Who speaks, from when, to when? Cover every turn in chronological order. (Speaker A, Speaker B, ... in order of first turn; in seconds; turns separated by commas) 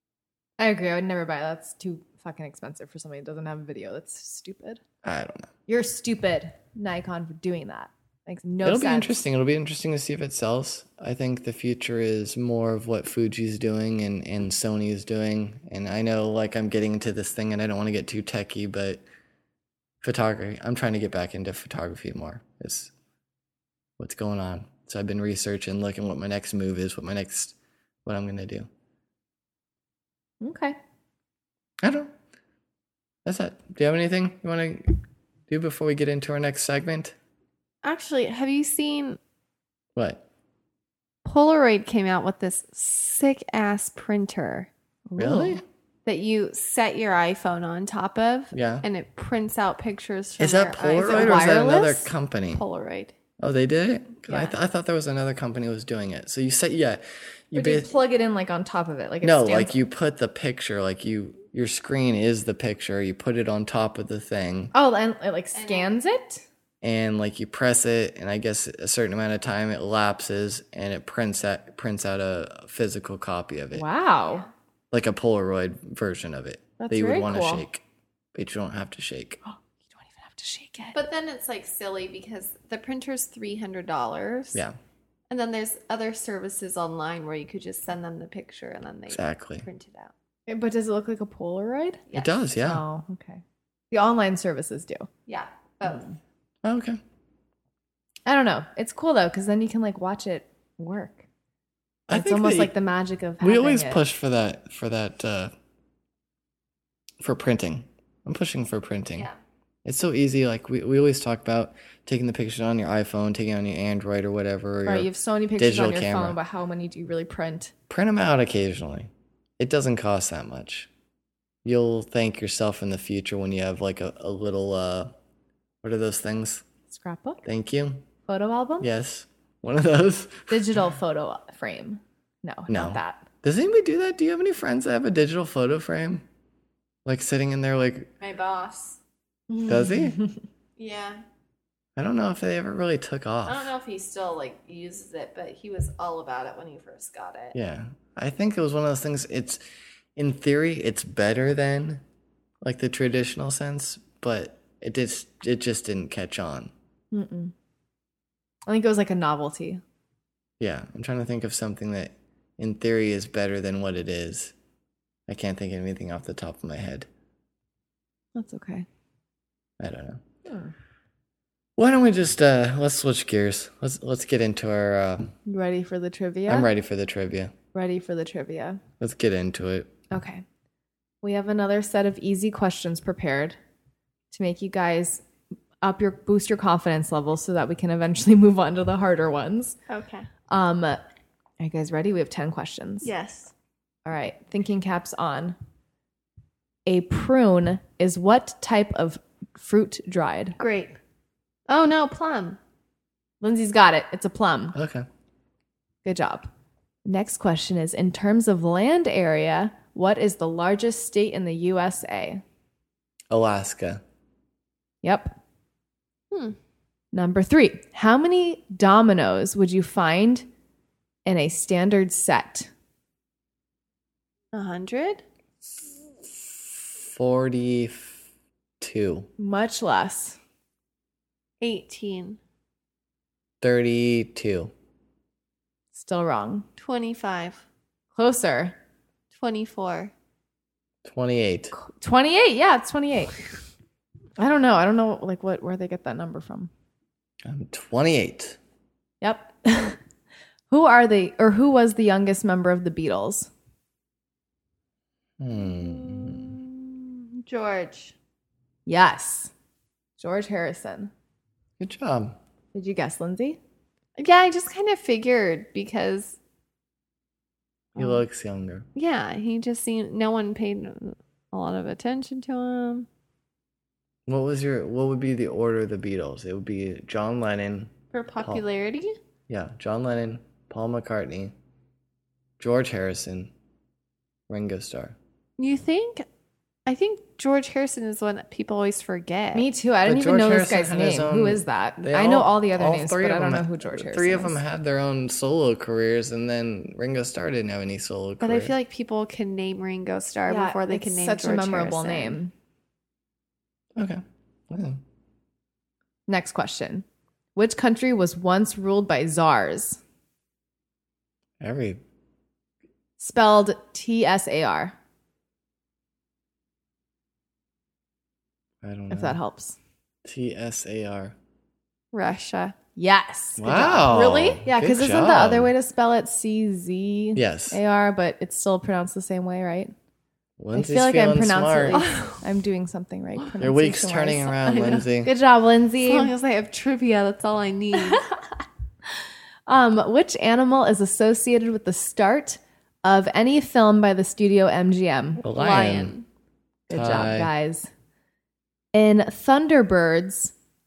Speaker A: 0.6-4.8, Speaker B: 5.0-5.5, Speaker A: 5.7-9.2, Speaker B: 8.6-19.0, Speaker B: 20.0-22.9, Speaker B: 24.0-28.7, Speaker A: 30.4-30.8, Speaker B: 31.8-32.1, Speaker B: 33.2-37.1, Speaker C: 37.8-39.2, Speaker B: 40.0-40.2, Speaker C: 41.2-44.7, Speaker A: 45.1-45.6, Speaker B: 45.2-45.6, Speaker C: 46.1-51.6, Speaker B: 48.5-48.9, Speaker B: 50.4-52.6, Speaker A: 51.0-52.1, Speaker C: 52.5-53.1, Speaker B: 53.4-57.9, Speaker A: 57.5-59.7, Speaker B: 59.2-64.7, Speaker A: 64.7-66.4, Speaker C: 65.5-66.0, Speaker B: 66.8-73.9, Speaker A: 73.7-74.5, Speaker B: 74.9-77.8, Speaker A: 76.8-77.6, Speaker B: 78.3-79.4, Speaker A: 79.5-81.0, Speaker C: 80.9-84.6, Speaker C: 85.3-90.1, Speaker B: 89.1-89.7, Speaker A: 90.5-92.0, Speaker B: 92.1-92.8, Speaker A: 92.6-95.1, Speaker C: 95.3-96.1, Speaker B: 96.6-97.0, Speaker A: 98.3-101.2, Speaker B: 102.1-102.7, Speaker A: 102.1-104.0, Speaker B: 103.4-105.5, Speaker B: 107.2-109.3, Speaker B: 109.8-116.4, Speaker A: 114.8-117.7, Speaker B: 117.9-120.9, Speaker B: 121.7-125.1, Speaker B: 125.8-126.7, Speaker A: 126.9-127.4, Speaker B: 127.5-128.1, Speaker A: 128.3-128.9, Speaker B: 128.8-130.6, Speaker A: 130.5-133.3, Speaker B: 132.7-136.2, Speaker B: 137.1-138.1, Speaker C: 138.2-139.0, Speaker A: 139.5-140.4, Speaker B: 139.7-140.2, Speaker C: 140.8-141.2, Speaker B: 142.0-143.7, Speaker C: 143.5-147.6, Speaker B: 147.5-149.6, Speaker B: 150.2-152.0, Speaker B: 152.6-156.7, Speaker A: 157.1-157.5, Speaker A: 158.7-159.8, Speaker B: 160.6-164.5, Speaker B: 165.3-167.1, Speaker A: 168.3-168.9, Speaker B: 169.8-170.2, Speaker A: 170.5-170.7, Speaker B: 171.8-175.3, Speaker A: 175.5-176.7, Speaker B: 176.5-177.6, Speaker A: 177.7-178.8, Speaker B: 179.0-179.9, Speaker A: 180.1-180.4, Speaker A: 181.2-183.6, Speaker A: 184.3-185.2, Speaker A: 185.8-189.8, Speaker C: 189.9-190.3, Speaker A: 190.5-191.0, Speaker A: 191.6-193.1, Speaker C: 193.0-193.5, Speaker A: 194.1-195.6, Speaker A: 196.9-200.6, Speaker C: 200.6-201.0, Speaker C: 201.7-202.6, Speaker A: 203.4-204.8, Speaker B: 204.7-205.1, Speaker A: 206.1-206.5, Speaker A: 207.1-212.4, Speaker B: 213.3-214.0, Speaker A: 215.0-215.4, Speaker C: 216.3-216.6, Speaker A: 217.1-220.4, Speaker A: 221.3-222.7, Speaker C: 224.5-225.2, Speaker B: 226.8-228.2, Speaker B: 228.8-229.3, Speaker A: 229.4-230.4, Speaker C: 231.6-232.4, Speaker B: 233.6-234.7, Speaker A: 235.9-236.7, Speaker C: 236.8-237.6, Speaker A: 238.2-238.8, Speaker C: 239.3-240.1, Speaker B: 241.1-241.7, Speaker A: 241.8-243.4, Speaker A: 244.4-246.7, Speaker B: 247.4-248.6, Speaker A: 249.2-250.0, Speaker A: 250.7-253.5, Speaker B: 255.4-256.6, Speaker C: 255.6-258.1, Speaker A: 258.9-259.5, Speaker A: 260.2-261.1, Speaker B: 261.8-262.4, Speaker A: 262.7-263.6, Speaker C: 264.2-266.4, Speaker B: 267.9-268.9, Speaker A: 268.0-268.2, Speaker C: 268.9-273.1, Speaker B: 274.3-278.6, Speaker C: 278.1-279.2, Speaker B: 279.5-281.5, Speaker B: 282.6-283.5, Speaker B: 284.5-285.2, Speaker C: 285.6-286.3, Speaker C: 286.9-289.7, Speaker A: 289.5-294.6, Speaker B: 290.0-298.7, Speaker C: 298.4-302.4, Speaker A: 300.5-302.5, Speaker B: 304.0-305.0, Speaker A: 306.3-307.1, Speaker A: 307.6-310.0, Speaker B: 311.6-312.0, Speaker A: 313.2-314.9, Speaker B: 318.8-319.4, Speaker A: 319.1-319.8, Speaker B: 320.2-321.4, Speaker C: 322.1-322.8, Speaker A: 323.0-329.9, Speaker B: 323.6-325.7, Speaker B: 327.4-327.8, Speaker B: 330.6-332.0, Speaker A: 330.7-336.3, Speaker C: 331.9-332.4, Speaker B: 333.6-335.3, Speaker C: 336.0-338.2, Speaker A: 339.7-345.4, Speaker B: 345.4-346.1, Speaker C: 345.5-346.3, Speaker A: 346.9-347.9, Speaker B: 346.9-347.5, Speaker A: 348.9-350.5